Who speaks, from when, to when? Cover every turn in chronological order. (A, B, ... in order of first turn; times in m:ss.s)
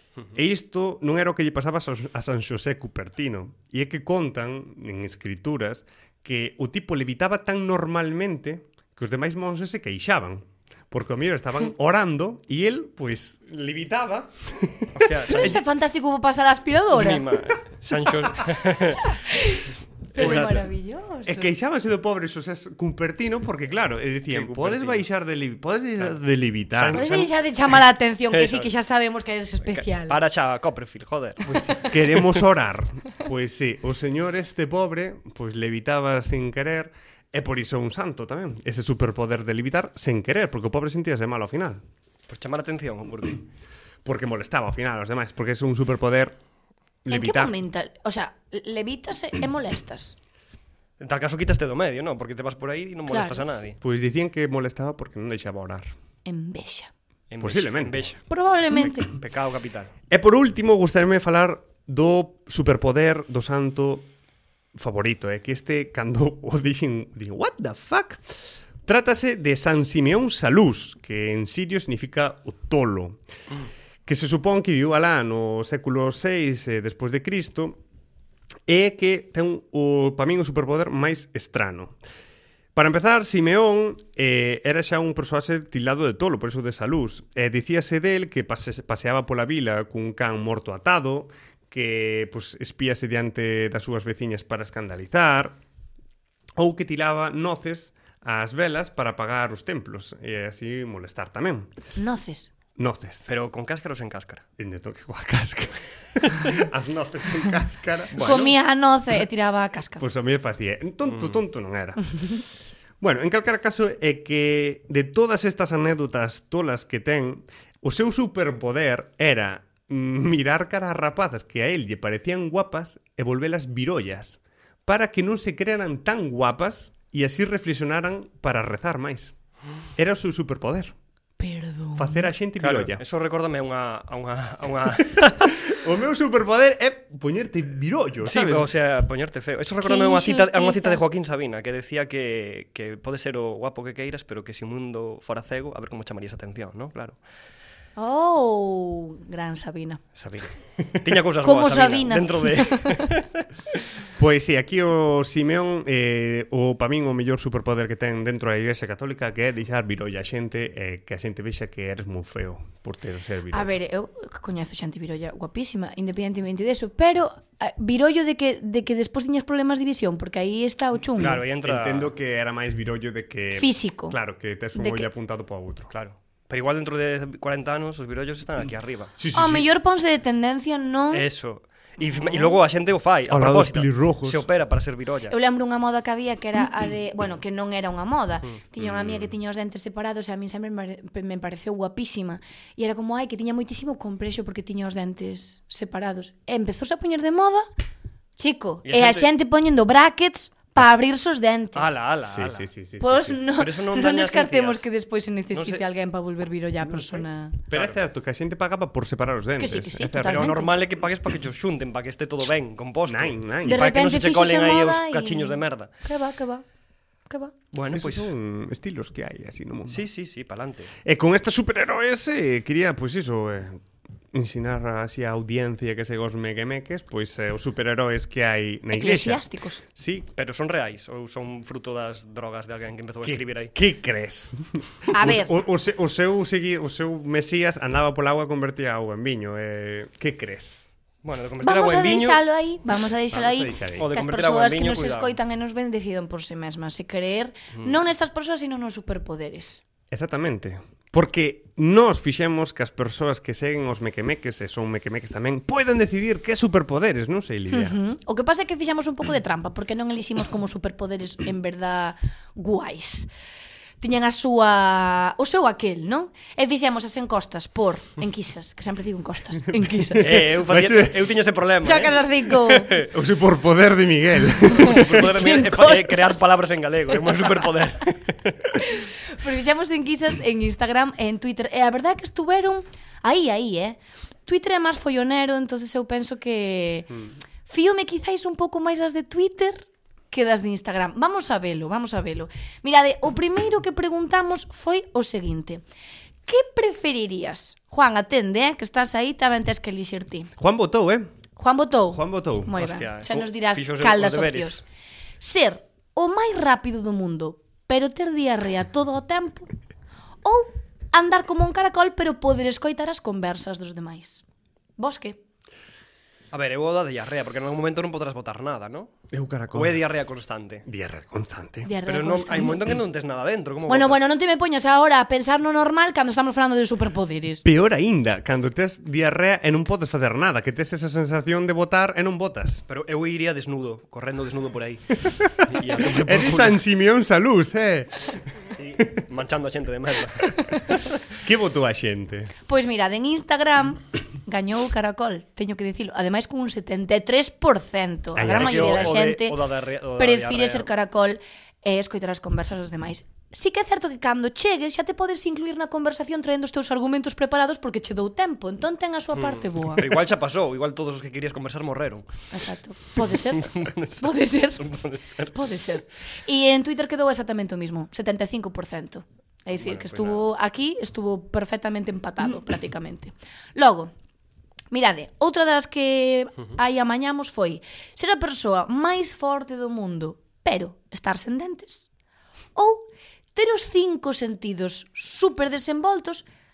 0:00.3-0:15.6 A
0:15.0-0:15.6 B
0:15.3-0:17.3 C
0:16.9-0:19.2 B
0:19.0-0:21.5 C
0:20.1-0:20.6 B
0:20.2-0:20.6 A
0:21.2-0:27.1 A
0:24.3-0:25.0 B
0:26.7-0:27.3 B
0:26.9-0:30.2 C
0:28.3-0:28.7 B
0:29.7-0:32.4 B
0:31.5-0:41.8 A
0:42.3-0:43.4 B
0:44.0-0:46.4 A
0:47.0-0:47.5 A
0:47.1-0:50.2 C
0:51.0-0:53.8 B
0:53.1-0:53.4 C
0:53.8-0:55.9 A
0:56.2-0:56.9 C
0:57.3-0:58.2 B
0:57.4-0:58.2 A
0:58.3-0:59.1 C
0:59.0-0:59.9 B
1:00.1-1:04.1 A
1:04.7-1:13.2 A
1:14.1-1:17.8 A
1:18.7-1:22.0 A
1:22.8-1:35.6 A
1:36.6-1:41.7 A
1:42.0-1:42.5 C
1:42.8-1:43.3 A
1:43.3-1:44.4 B
1:44.6-1:48.5 A
1:48.1-1:48.5 B
1:48.2-1:50.0 C
1:50.0-1:52.5 A
1:51.1-1:51.4 B
1:53.0-2:09.3 A
2:10.0-2:11.0 A
2:11.4-2:12.3 C
2:12.0-2:13.0 A
2:12.6-2:15.6 B
2:15.2-2:18.7 A
2:18.2-2:27.2 B
2:19.8-2:21.0 C
2:28.0-2:30.0 C
2:30.2-2:33.8 B
2:30.8-2:31.1 A
2:31.4-2:33.0 C
2:34.2-2:43.8 A
2:43.5-2:51.4 C
2:51.2-2:52.1 B
2:51.2-2:55.9 A
2:53.6-2:54.2 C
2:54.8-2:55.1 C
2:55.9-2:59.1 B
2:59.2-2:59.7 A
2:59.3-3:01.2 C
3:01.1-3:05.4 B
3:02.2-3:02.5 C
3:03.3-3:04.5 A
3:05.3-3:17.7 C
3:08.8-3:09.3 A
3:18.4-3:22.0 C
3:18.8-3:19.3 B
3:21.8-3:22.7 B
3:22.3-3:23.4 A
3:23.0-3:27.6 C
3:23.6-3:24.8 B
3:25.5-3:25.8 B
3:27.7-3:30.6 A
3:27.7-3:28.0 B
3:29.6-3:30.7 C
3:30.2-3:35.9 B
3:33.1-3:33.8 A
3:33.6-3:36.6 C
3:37.3-3:37.5 C
3:37.7-3:38.3 B
3:37.9-3:40.1 A
3:39.9-3:40.9 B
3:41.0-3:50.3 A
3:48.9-3:49.8 C
3:50.4-3:53.7 B
3:53.2-4:00.8 A
3:55.1-3:55.5 C
4:01.2-4:02.4 B
4:01.6-4:09.8 C
4:03.3-4:04.1 A
4:04.0-4:05.4 B
4:10.1-4:18.0 A
4:17.7-4:23.3 C
4:24.0-4:30.3 C
4:29.7-4:31.3 A
4:30.2-4:33.1 B
4:31.8-4:32.9 C
4:33.0-4:35.3 A
4:34.7-4:36.4 C
4:34.8-4:38.7 B
4:37.3-4:37.5 C
4:38.7-4:47.2 C
4:47.7-4:55.8 C
4:56.5-5:00.5 C
5:00.6-5:01.3 A
5:01.6-5:04.8 C
5:02.1-5:02.7 A
5:02.8-5:04.8 B
5:05.4-5:09.7 C
5:10.4-5:14.4 C
5:15.0-5:15.4 C
5:16.5-5:19.1 B
5:19.3-5:20.0 A
5:19.7-5:20.8 B
5:20.9-5:21.9 A
5:21.8-5:23.0 C
5:22.0-5:24.2 B
5:23.9-5:27.6 C
5:27.6-5:32.8 A
5:32.9-5:36.8 B
5:35.3-5:38.4 A
5:38.8-5:41.2 B
5:39.0-5:39.2 A
5:41.4-5:42.5 A
5:42.7-5:49.6 C
5:48.4-5:49.2 A
5:48.5-5:50.9 B
5:50.2-6:00.2 C
5:59.4-6:02.4 B
6:02.5-6:04.9 C
6:03.2-6:05.9 B
6:05.5-6:14.1 C
6:09.8-6:10.5 B
6:14.9-6:22.1 C
6:22.8-6:26.5 C